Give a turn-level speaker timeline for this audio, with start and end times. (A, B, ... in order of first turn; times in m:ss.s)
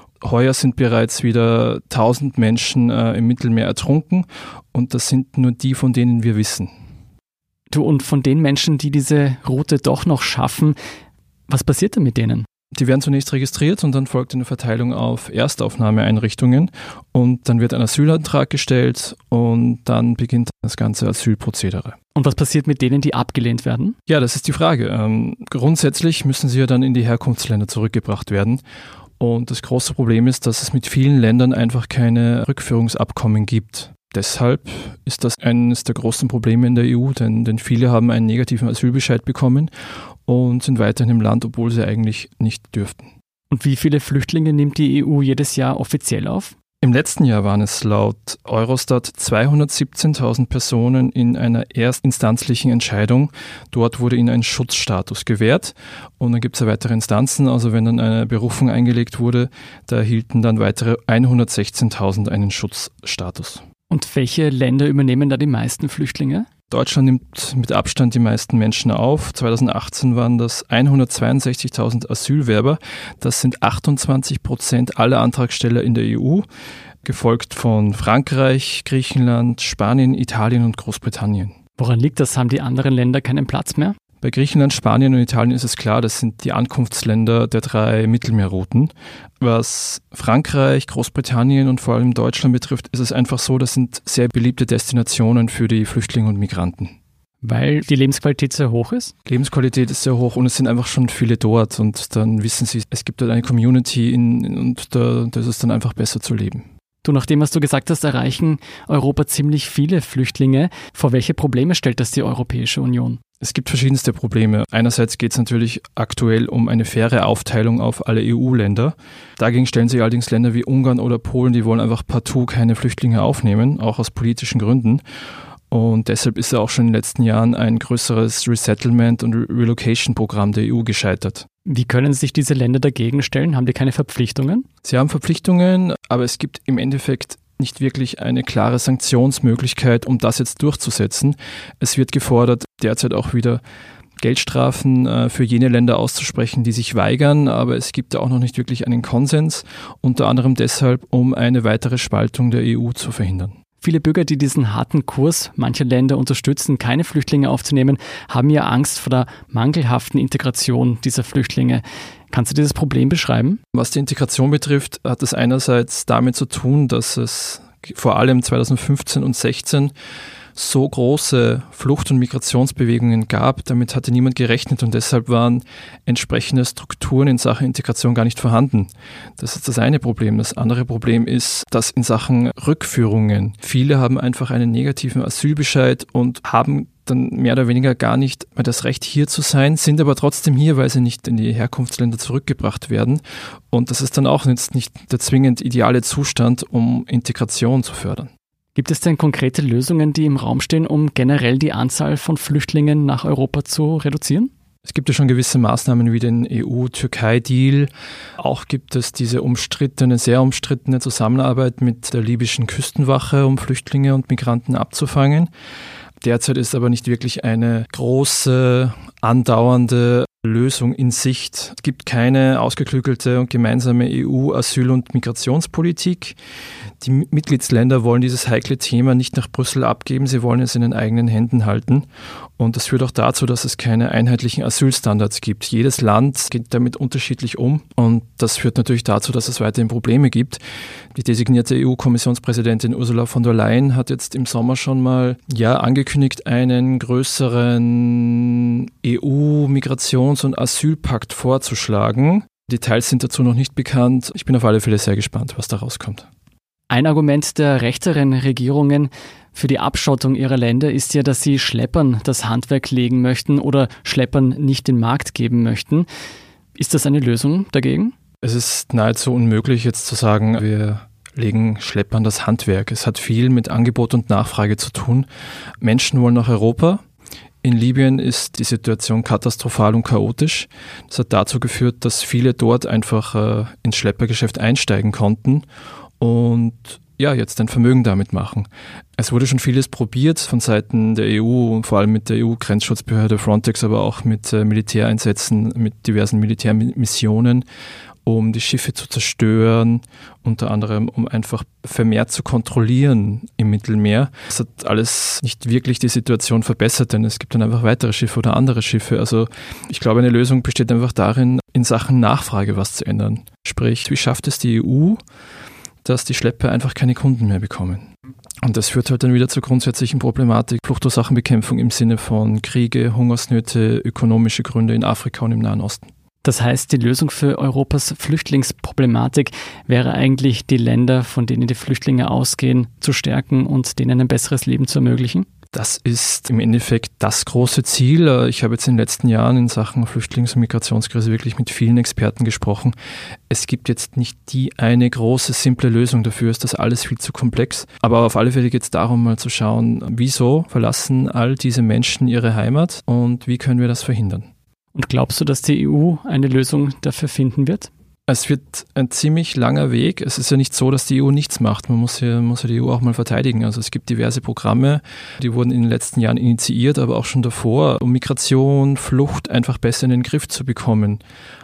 0:00.2-0:06.7 A
0:07.7-0:10.8 B
0:11.5-0:12.5 B
0:12.7-0:22.0 A
0:22.2-0:24.0 B
0:24.1-0:28.6 A
0:29.2-0:39.7 A
0:40.3-0:43.1 A
0:43.5-0:46.5 B
0:46.8-1:03.6 A
1:03.9-1:06.5 B
1:06.7-1:16.5 A
1:17.0-1:21.6 A
1:21.8-1:24.0 B
1:24.2-1:36.9 A
1:37.4-1:39.1 B
1:39.3-1:46.6 A
1:47.0-1:53.2 B
1:53.4-2:05.0 A
2:05.7-2:11.5 A
2:11.7-2:14.6 B
2:14.8-2:23.6 A
2:24.2-2:33.5 A
2:33.8-2:43.6 B
2:43.7-2:49.9 A
2:50.6-3:18.3 A
3:18.8-3:24.5 B
3:24.9-3:35.5 A
3:36.2-3:46.4 A
3:47.0-3:52.1 A
3:52.6-4:00.6 A
4:01.1-4:16.3 A
4:16.9-4:26.1 B
4:26.8-4:28.1 B
4:28.4-4:35.3 A
4:35.8-4:37.0 A
4:37.6-4:45.6 A
4:46.2-4:57.6 A
4:58.3-5:15.2 A
5:16.0-5:18.1 A
5:18.6-5:26.1 A
5:26.4-5:35.5 B
5:35.7-5:43.0 A
5:43.5-5:54.5 A
5:55.0-5:57.9 B
5:58.3-6:11.2 A